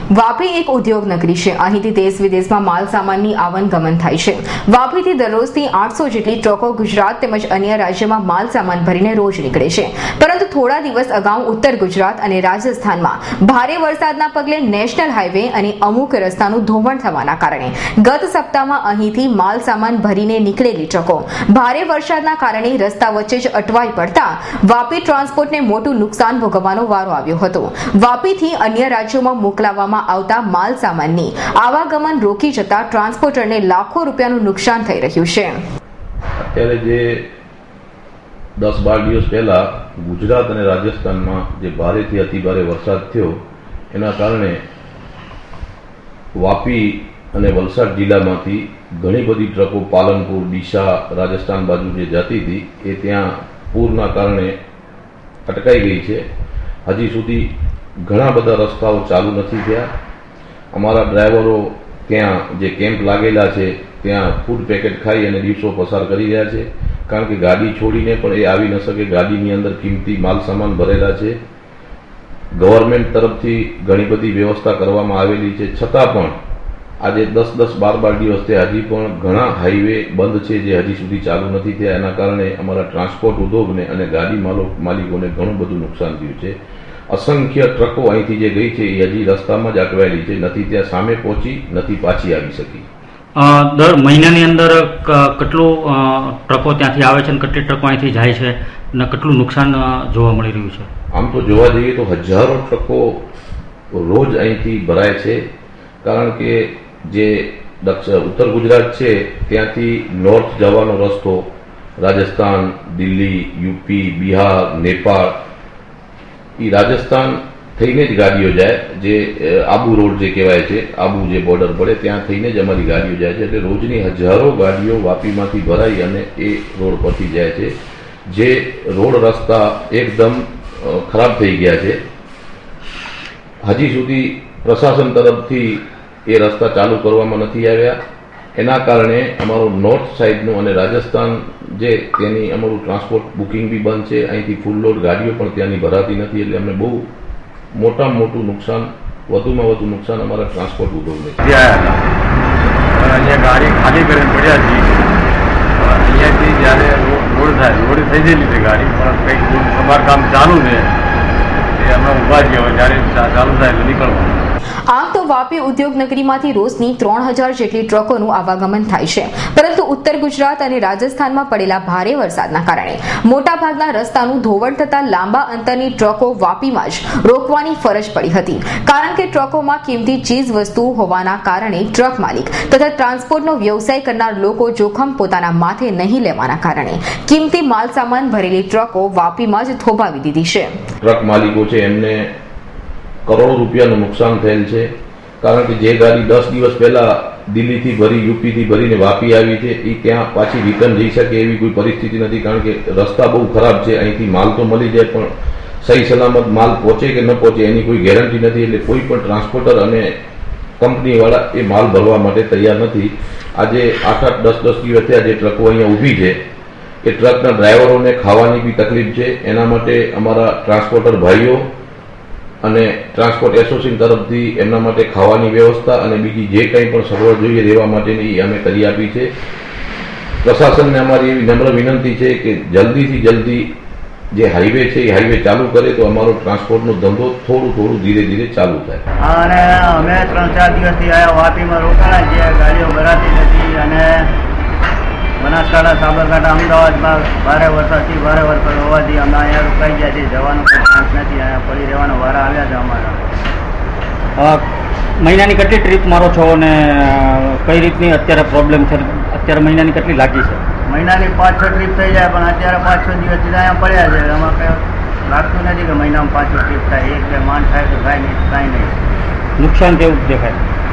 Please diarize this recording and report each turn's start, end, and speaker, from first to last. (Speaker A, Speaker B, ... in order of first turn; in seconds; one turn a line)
Speaker A: 0.1-35.6
Speaker B: 36.4-37.2
Speaker B: 38.6-43.4
Speaker B: 43.9-44.6
Speaker B: 46.4-54.5
Speaker B: 55.5-56.2
Speaker B: 56.9-57.5
Speaker B: 58.0-59.9
Speaker B: 60.7-71.4
Speaker B: 72.5-76.3
Speaker B: 77.0-86.6
Speaker B: 87.1-92.8
Speaker C: 93.3-100.9
Speaker B: 101.1-103.2
Speaker B: 103.9-105.4
Speaker B: 106.0-111.5
Speaker B: 112.0-115.4
Speaker B: 116.6-127.7
Speaker B: 128.3-132.0
Speaker B: 133.6-138.0
Speaker B: 138.6-147.1
Speaker B: 147.7-151.4
Speaker D: 151.4-152.0
Speaker D: 152.9-155.0
Speaker D: 155.8-160.9
Speaker D: 161.7-164.4
Speaker A: 164.9-190.8
Speaker B: 191.0-192.3
Speaker B: 193.2-194.9
Speaker B: 195.4-205.3
Speaker B: 205.8-210.1
Speaker B: 210.8-216.4
Speaker B: 217.0-221.7
Speaker B: 222.6-229.3
Speaker B: 230.4-233.7
Speaker B: 234.3-239.0
Speaker E: 239.2-244.2
Speaker E: 245.4-253.2
Speaker C: 254.4-254.6
Speaker C: 255.2-260.6
Speaker E: 260.9-268.9
Speaker C: 269.6-270.6